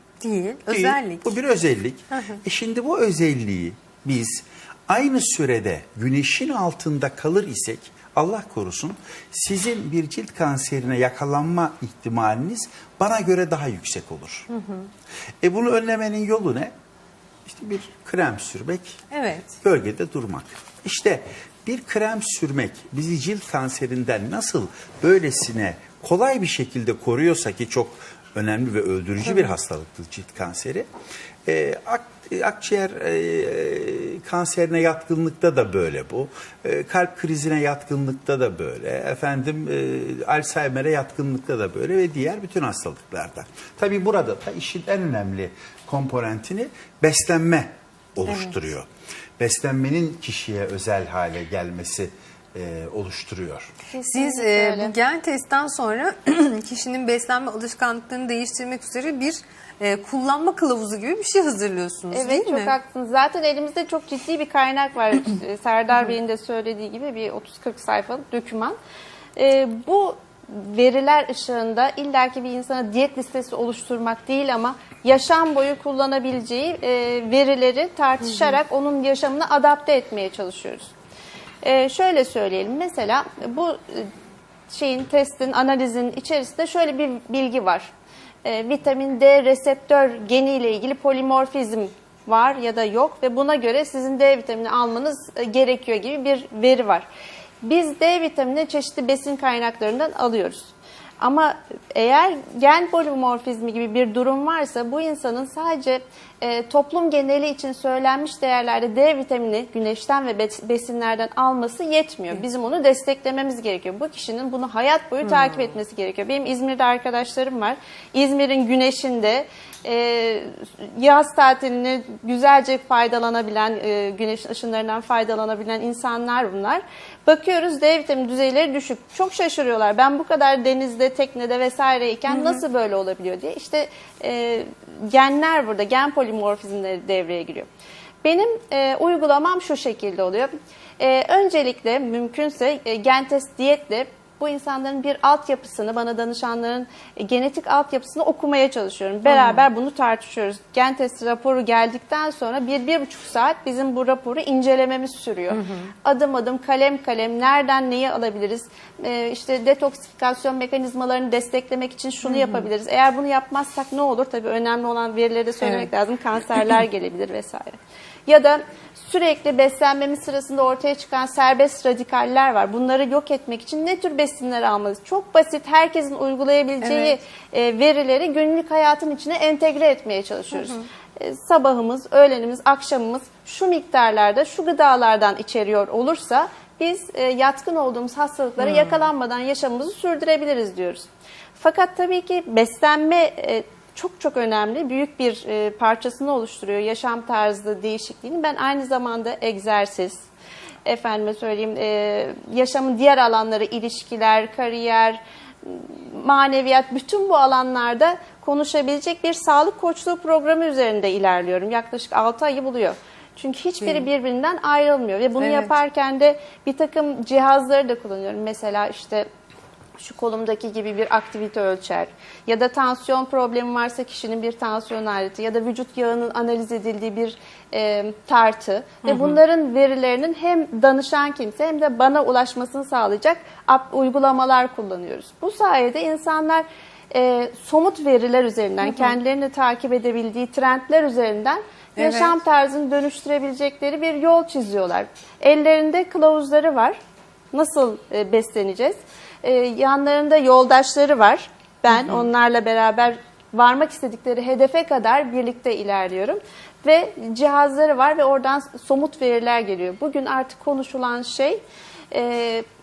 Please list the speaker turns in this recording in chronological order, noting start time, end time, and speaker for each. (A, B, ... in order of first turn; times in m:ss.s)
0:00.2-0:01.3 A
0:00.7-0:14.5 B
0:02.1-0:02.4 A
0:14.5-0:14.9 A
0:15.4-0:16.7 B
0:17.4-0:19.0 B
0:19.1-0:19.6 A
0:19.6-0:30.9 B
0:29.2-0:29.5 A
0:31.4-0:53.7 B
0:48.3-0:48.6 A
0:53.9-0:54.9 C
0:54.0-1:02.7 A
1:02.1-1:08.8 C
1:09.4-1:20.9 C
1:21.6-1:24.1 C
1:24.7-1:27.9 C
1:28.4-1:37.1 C
1:37.6-2:17.7 C
1:55.2-1:55.6 A
2:12.3-2:12.6 A
2:18.2-3:11.1 C
2:29.2-2:29.6 A
2:35.5-2:35.9 A
2:42.2-2:42.7 A
2:45.6-2:45.9 A
2:56.8-2:57.1 A
3:00.5-3:00.8 A
3:08.6-3:09.0 A
3:11.6-3:20.2 C
3:20.8-3:39.3 C
3:33.8-3:34.1 A
3:35.4-3:35.7 A
3:40.0-4:07.0 C
3:49.0-3:49.4 A
3:58.8-3:59.1 A
4:02.0-4:02.4 A
4:07.5-4:22.6 C
4:11.9-4:12.3 A